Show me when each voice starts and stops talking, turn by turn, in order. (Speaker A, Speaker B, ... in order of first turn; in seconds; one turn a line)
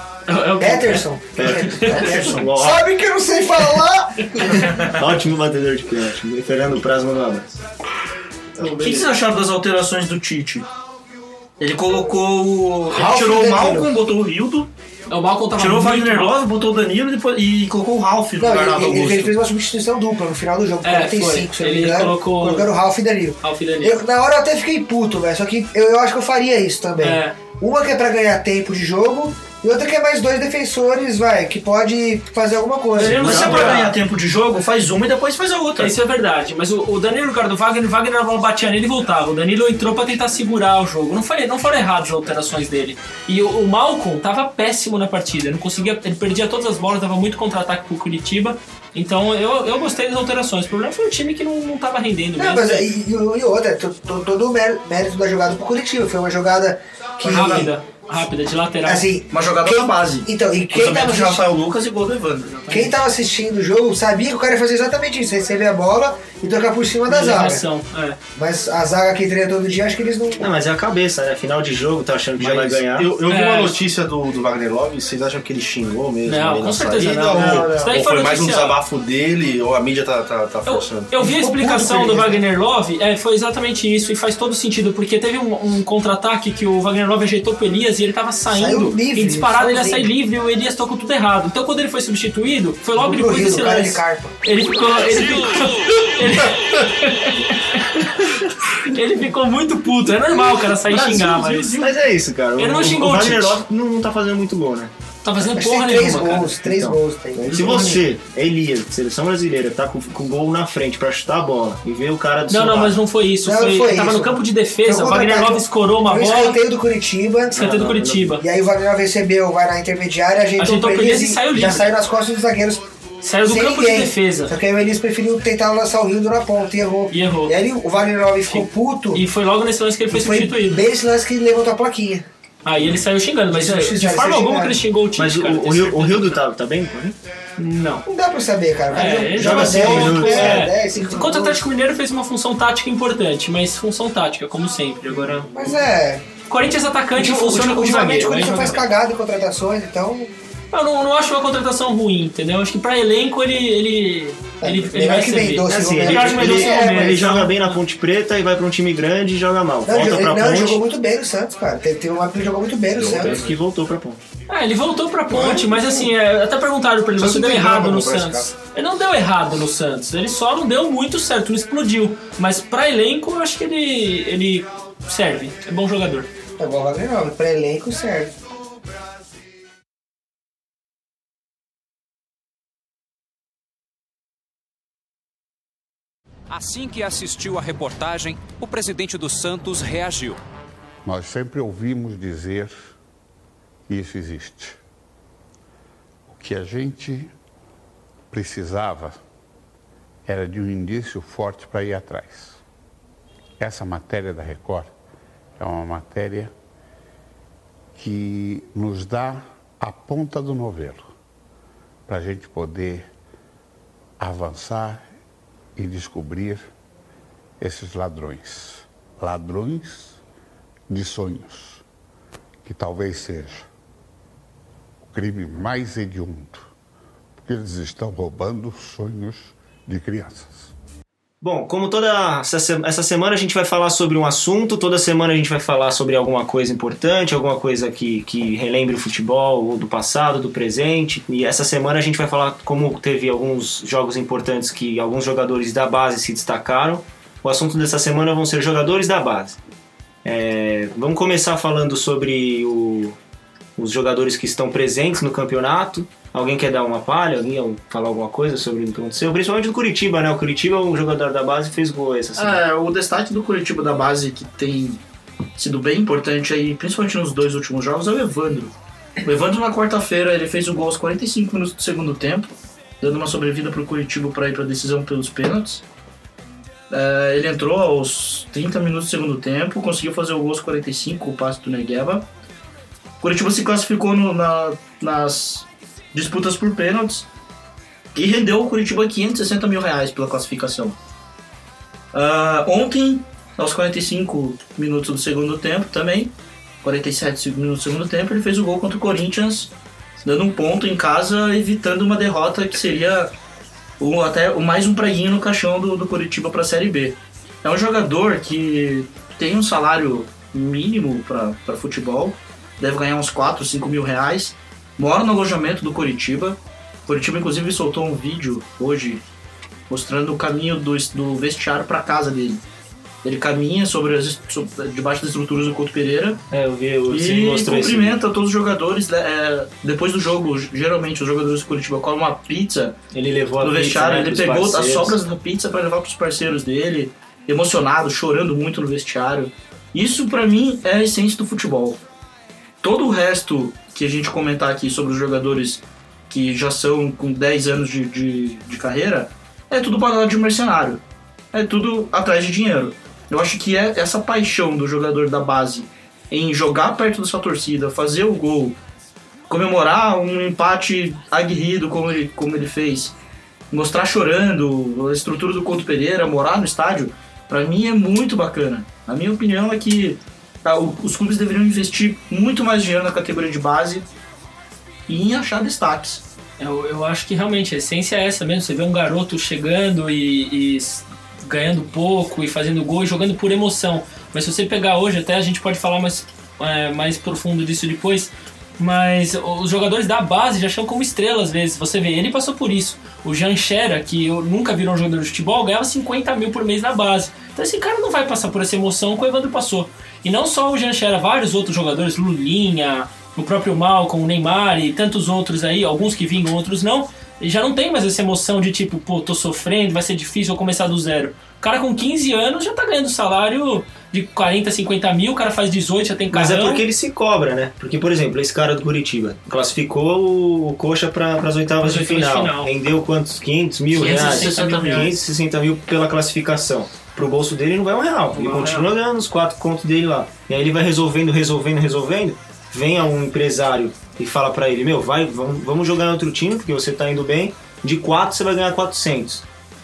Speaker A: 0.3-2.0
Speaker B: 0.6-4.9
Speaker C: 1.4-2.8
Speaker C: 4.8-7.6
Speaker A: 8.6-9.1
Speaker D: 8.8-10.7
Speaker D: 11.6-14.7
Speaker B: 12.9-13.9
Speaker A: 15.1-16.4
Speaker D: 15.6-19.4
Speaker B: 18.4-33.7
Speaker A: 20.8-22.7
Speaker A: 23.4-24.0
Speaker A: 27.0-27.4
Speaker A: 33.0-33.9
Speaker D: 33.1-36.0
Speaker C: 33.3-33.7
Speaker A: 35.8-52.9
Speaker B: 52.4-57.7
Speaker A: 57.2-59.1
Speaker B: 58.9-61.4
Speaker D: 59.3-62.5
Speaker A: 62.4-63.0
Speaker B: 62.7-67.6
Speaker A: 67.1-68.2
Speaker B: 68.3-70.5
Speaker C: 70.4-73.1
Speaker E: 72.4-81.1
Speaker A: 73.2-73.8
Speaker A: 76.2-78.8
Speaker B: 77.3-78.0
Speaker A: 80.7-101.8
Speaker B: 81.2-82.4
Speaker B: 88.5-90.1
Speaker B: 93.0-94.3
Speaker D: 100.8-101.9
Speaker C: 101.8-104.9
Speaker A: 102.6-103.6
Speaker A: 105.2-106.6
Speaker B: 105.5-107.9
Speaker C: 106.7-113.0
Speaker E: 107.4-107.7
Speaker A: 107.5-108.0
Speaker A: 112.5-116.6
Speaker B: 113.4-117.7
Speaker A: 117.5-118.4
Speaker C: 117.5-118.4
Speaker B: 118.4-122.8
Speaker A: 120.6-121.9
Speaker A: 123.2-124.5
Speaker B: 123.4-129.2
Speaker A: 127.1-127.5
Speaker A: 128.5-130.8
Speaker B: 130.1-132.2
Speaker A: 132.7-136.4
Speaker B: 133.5-134.8
Speaker C: 135.2-137.2
Speaker A: 137.6-138.1
Speaker B: 138.1-141.7
Speaker A: 138.9-145.5
Speaker C: 139.3-140.7
Speaker B: 145.5-146.2
Speaker A: 146.5-148.8
Speaker B: 147.2-150.3
Speaker A: 150.7-157.8
Speaker B: 154.6-157.4
Speaker C: 155.7-160.8
Speaker B: 159.9-163.4
Speaker E: 163.0-163.4
Speaker C: 163.0-164.2
Speaker A: 164.5-176.3
Speaker B: 165.3-166.1
Speaker E: 167.2-168.5
Speaker B: 176.6-178.4
Speaker F: 186.5-190.4
Speaker G: 191.1-192.9
Speaker G: 193.9-194.8
Speaker G: 196.3-197.3
Speaker G: 198.3-199.2
Speaker G: 200.2-202.6
Speaker G: 203.6-204.9
Speaker G: 205.6-206.5
Speaker G: 207.9-211.1
Speaker G: 212.1-213.1
Speaker G: 214.2-215.1
Speaker G: 215.8-216.7
Speaker G: 217.6-220.2
Speaker G: 220.9-221.8
Speaker G: 222.6-223.7
Speaker G: 225.0-226.7
Speaker G: 227.4-230.7
Speaker C: 231.4-249.6
Speaker C: 250.2-253.2
Speaker C: 253.8-262.6
Speaker D: 262.4-265.0
Speaker D: 265.6-275.8
Speaker D: 276.9-282.3
Speaker D: 283.2-287.3
Speaker D: 288.1-291.0
Speaker D: 292.1-303.3
Speaker D: 304.0-319.2
Speaker D: 319.9-322.6
Speaker D: 323.2-326.4
Speaker C: 326.5-328.2
Speaker D: 327.1-333.0
Speaker C: 333.1-335.2
Speaker D: 333.6-342.0
Speaker D: 342.8-351.0
Speaker D: 351.5-358.8
Speaker D: 359.5-363.1
Speaker D: 363.7-374.1
Speaker D: 375.1-376.2
Speaker A: 376.6-416.8
Speaker C: 416.3-439.4
Speaker A: 421.8-422.7
Speaker A: 423.9-425.1
Speaker D: 423.9-425.1
Speaker A: 428.3-428.9